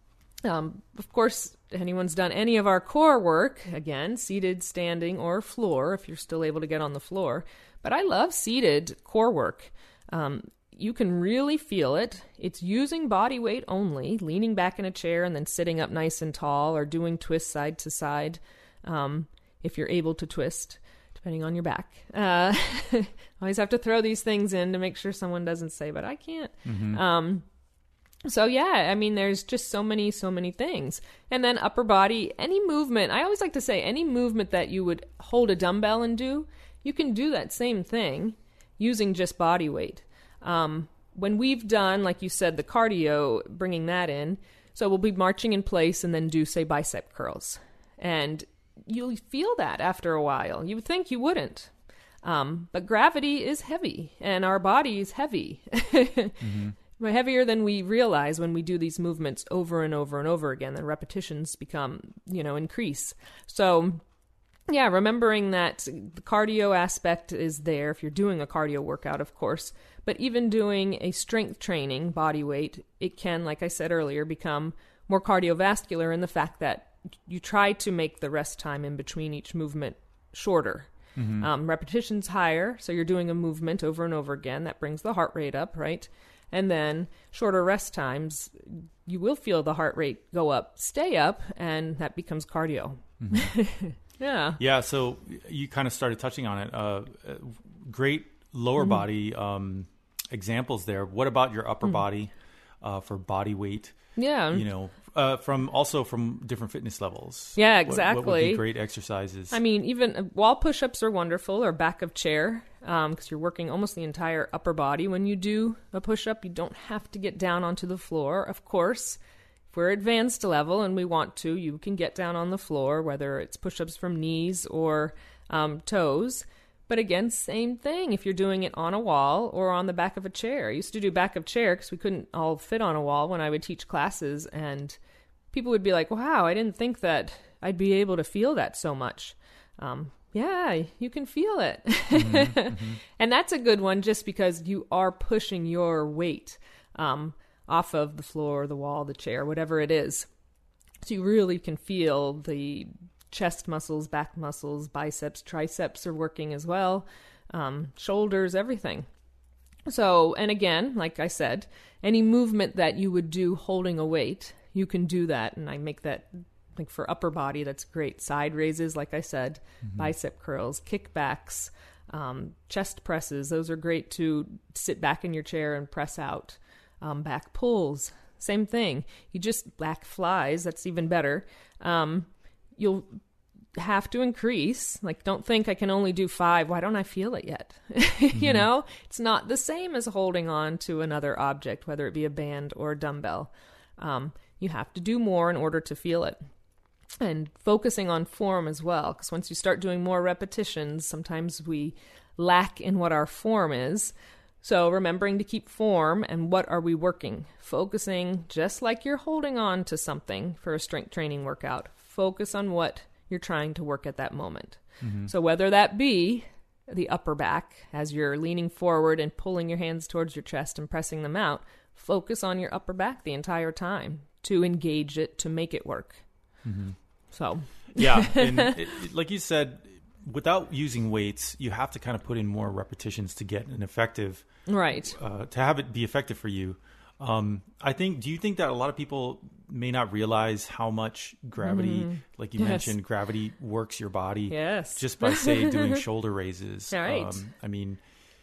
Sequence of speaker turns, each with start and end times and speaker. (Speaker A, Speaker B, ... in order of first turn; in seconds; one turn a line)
Speaker A: 0.4-27.4
Speaker B: 26.6-27.0
Speaker A: 28.2-51.7
Speaker A: 52.2-64.0
Speaker B: 56.4-56.8
Speaker A: 64.7-94.6
Speaker B: 81.2-81.5
Speaker B: 93.2-93.5
Speaker B: 94.6-102.3
Speaker B: 102.8-104.0
Speaker A: 104.2-104.6
Speaker B: 104.5-109.6
Speaker A: 107.6-108.6
Speaker A: 109.5-119.2
Speaker A: 119.7-135.0
Speaker A: 135.5-150.3
Speaker B: 142.1-143.0
Speaker A: 151.0-159.1
Speaker A: 159.9-183.2
Speaker B: 169.8-170.1
Speaker A: 183.8-196.4
Speaker B: 188.3-188.6
Speaker A: 197.2-226.2
Speaker B: 215.0-215.3
Speaker B: 226.6-227.0
Speaker A: 227.3-228.7
Speaker B: 227.9-234.5
Speaker A: 234.7-235.2
Speaker B: 235.0-248.0
Speaker A: 241.6-242.9
Speaker A: 244.5-246.0
Speaker A: 246.9-247.4